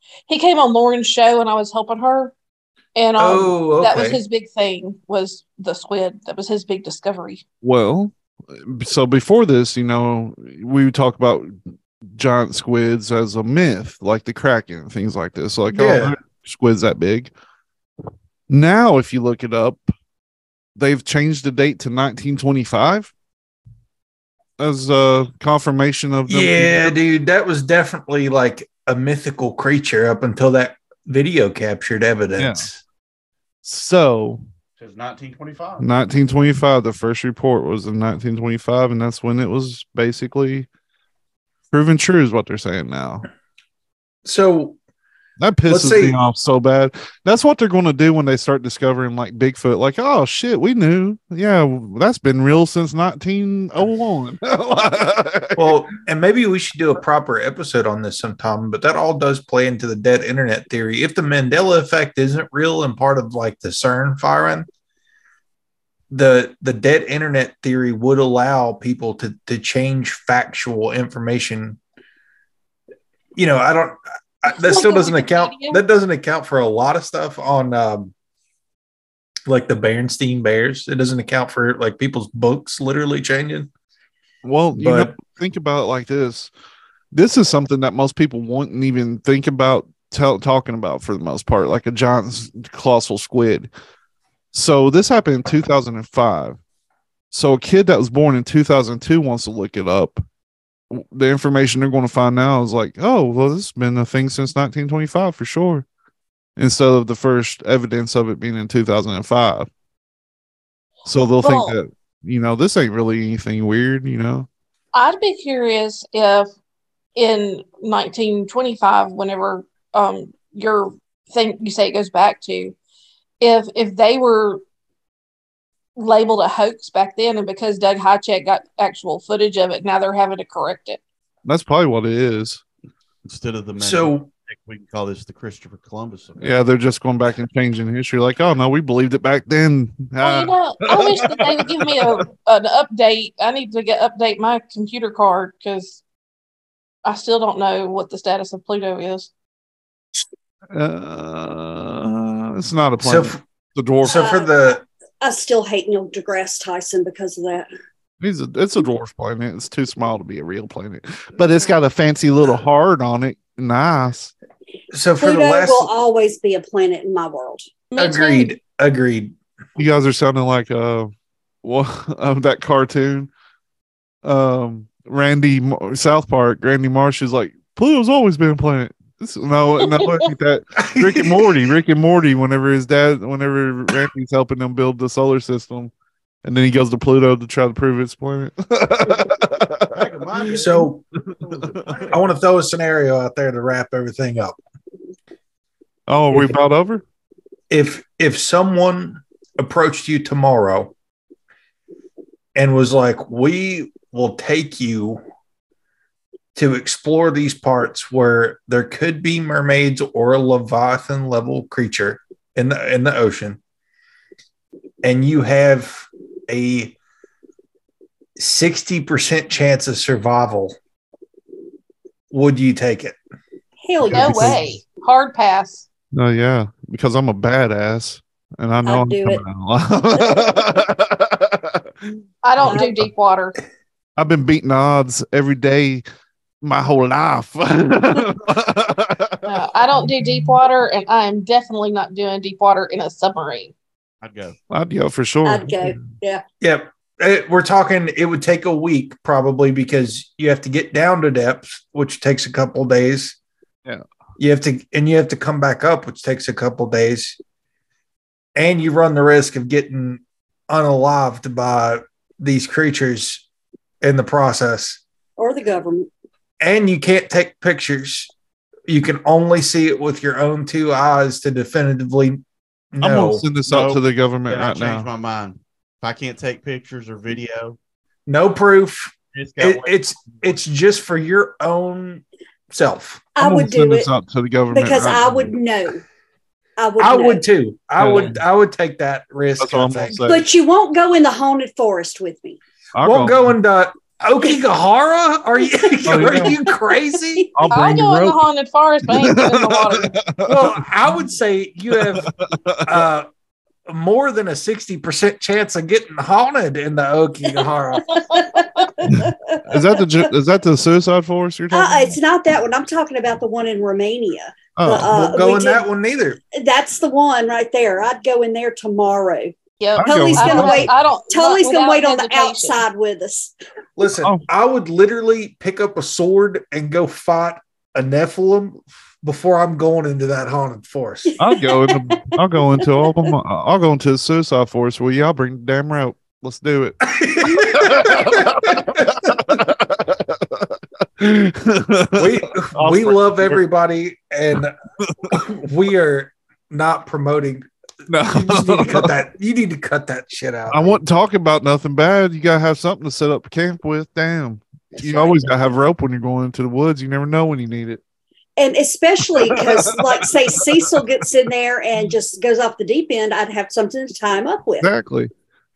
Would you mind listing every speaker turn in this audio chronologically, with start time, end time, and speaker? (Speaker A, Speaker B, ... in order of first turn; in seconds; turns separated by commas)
Speaker A: 0.3-2.3, Speaker A: 2.9-7.4, Speaker B: 3.2-4.2, Speaker C: 7.6-17.3, Speaker B: 15.7-16.2, Speaker C: 18.5-19.9, Speaker C: 20.8-23.1, Speaker C: 24.6-26.9, Speaker B: 26.3-32.8, Speaker C: 32.4-32.7, Speaker C: 33.6-34.4, Speaker D: 34.8-35.9, Speaker C: 35.8-40.7, Speaker C: 41.7-43.3, Speaker B: 44.2-44.8, Speaker C: 45.4-55.9, Speaker B: 45.7-46.2, Speaker B: 55.6-64.7, Speaker B: 66.1-71.8, Speaker B: 73.3-78.1, Speaker A: 74.5-75.8, Speaker B: 79.5-83.7, Speaker C: 84.4-86.5, Speaker B: 84.7-85.1, Speaker C: 87.1-93.7, Speaker C: 94.5-96.6, Speaker C: 97.3-100.2, Speaker C: 100.9-105.8, Speaker C: 106.6-109.7, Speaker C: 111.0-114.5, Speaker A: 111.4-111.7, Speaker A: 114.9-116.5, Speaker A: 117.1-122.8, Speaker A: 123.4-124.6, Speaker A: 126.0-131.0, Speaker C: 131.4-132.6, Speaker D: 133.2-136.6, Speaker B: 133.8-134.3, Speaker C: 136.4-142.2, Speaker A: 140.2-146.0, Speaker A: 147.0-149.3, Speaker C: 150.7-154.3, Speaker B: 153.0-153.4, Speaker B: 154.0-154.8, Speaker E: 154.0-154.5, Speaker E: 155.2-157.7, Speaker C: 158.2-164.3, Speaker B: 164.9-165.9, Speaker E: 165.2-168.5, Speaker A: 167.9-168.2, Speaker B: 167.9-169.3, Speaker C: 169.8-171.1, Speaker C: 171.6-173.3, Speaker C: 174.2-185.9, Speaker B: 180.8-181.6, Speaker C: 186.4-189.9, Speaker D: 189.9-192.4, Speaker B: 190.5-191.0, Speaker B: 192.1-194.6, Speaker C: 196.1-197.0, Speaker B: 197.7-200.9, Speaker B: 202.5-205.2, Speaker B: 206.5-213.6, Speaker B: 215.0-216.9, Speaker B: 218.4-220.7, Speaker B: 222.3-223.2, Speaker E: 223.8-224.6, Speaker A: 224.1-225.8, Speaker C: 224.1-224.4, Speaker C: 226.1-232.8, Speaker E: 228.8-229.4, Speaker A: 232.4-233.6, Speaker E: 232.6-233.0, Speaker C: 234.2-236.0, Speaker C: 236.6-239.5, Speaker A: 239.4-243.7, Speaker C: 240.0-240.3, Speaker D: 244.2-244.6, Speaker C: 244.7-246.1, Speaker E: 245.4-246.4, Speaker B: 246.6-253.4, Speaker B: 254.4-257.4, Speaker B: 258.6-263.4, Speaker B: 264.0-265.0, Speaker E: 265.4-266.1, Speaker B: 266.6-268.3, Speaker B: 268.9-272.4, Speaker B: 272.9-273.4, Speaker C: 273.0-275.1, Speaker D: 273.6-277.8, Speaker B: 278.3-283.3, Speaker D: 279.3-280.6, Speaker E: 283.3-284.1, Speaker C: 283.4-285.5, Speaker E: 284.7-286.0, Speaker E: 286.8-287.4, Speaker B: 287.0-290.2, Speaker C: 288.0-288.4, Speaker C: 289.6-290.4, Speaker E: 290.2-292.6, Speaker C: 292.9-293.5, Speaker B: 293.0-297.5, Speaker C: 296.1-296.6, Speaker E: 296.1-296.6, Speaker C: 297.5-298.4, Speaker A: 297.7-300.1, Speaker C: 299.0-300.8, Speaker B: 300.4-302.3, Speaker C: 301.9-303.1, Speaker B: 302.8-303.3, Speaker B: 303.9-308.2, Speaker E: 307.5-310.2, Speaker A: 308.1-308.9, Speaker C: 309.0-312.2, Speaker E: 311.7-315.8, Speaker C: 314.8-315.2, Speaker B: 314.9-316.4, Speaker E: 316.5-323.5, Speaker A: 319.8-322.8, Speaker C: 320.0-320.9, Speaker B: 324.0-331.3, Speaker E: 331.2-332.2, Speaker C: 331.4-343.6, Speaker E: 332.8-333.3, Speaker B: 337.1-339.6, Speaker B: 342.1-344.7, Speaker C: 345.0-345.5, Speaker B: 345.3-347.6, Speaker C: 348.1-349.1, Speaker B: 348.3-351.0, Speaker C: 350.7-358.0, Speaker E: 355.0-355.5, Speaker E: 358.6-364.9, Speaker C: 359.3-360.9, Speaker C: 364.8-365.3